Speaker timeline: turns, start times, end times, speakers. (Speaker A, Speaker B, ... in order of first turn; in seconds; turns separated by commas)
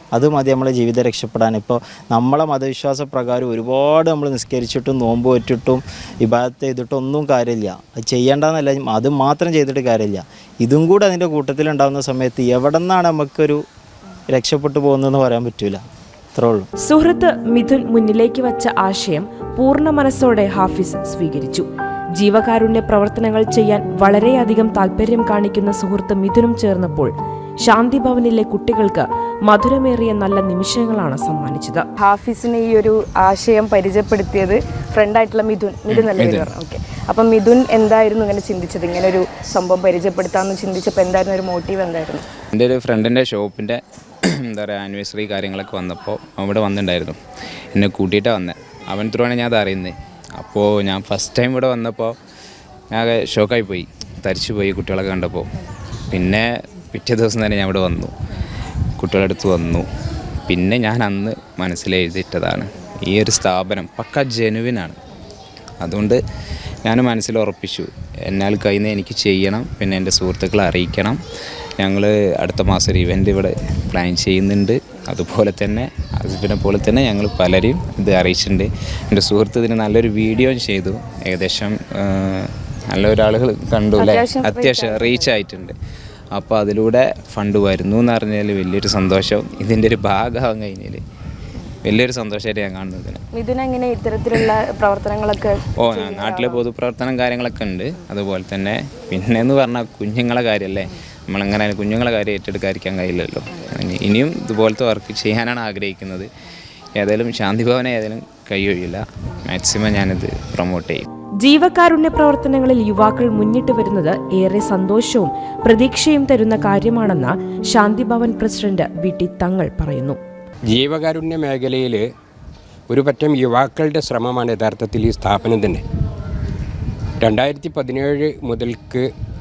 Speaker A: 0.1-13.6, Speaker A: 14.3-15.8, Speaker A: 16.3-16.7, Speaker B: 16.8-21.6, Speaker B: 22.2-27.1, Speaker B: 27.6-31.9, Speaker C: 32.0-42.2, Speaker D: 35.9-36.5, Speaker D: 42.5-43.8, Speaker D: 44.3-47.2, Speaker D: 47.7-52.1, Speaker D: 52.9-55.5, Speaker D: 56.1-58.1, Speaker D: 59.0-59.8, Speaker D: 60.5-65.0, Speaker D: 65.8-66.2, Speaker D: 66.8-71.2, Speaker D: 71.8-85.7, Speaker C: 84.0-85.3, Speaker D: 86.3-91.0, Speaker D: 91.8-93.2, Speaker C: 93.3-96.6, Speaker D: 95.8-106.3, Speaker D: 107.0-111.0, Speaker B: 111.4-120.2, Speaker E: 120.7-122.0, Speaker E: 122.9-125.8, Speaker E: 127.2-129.1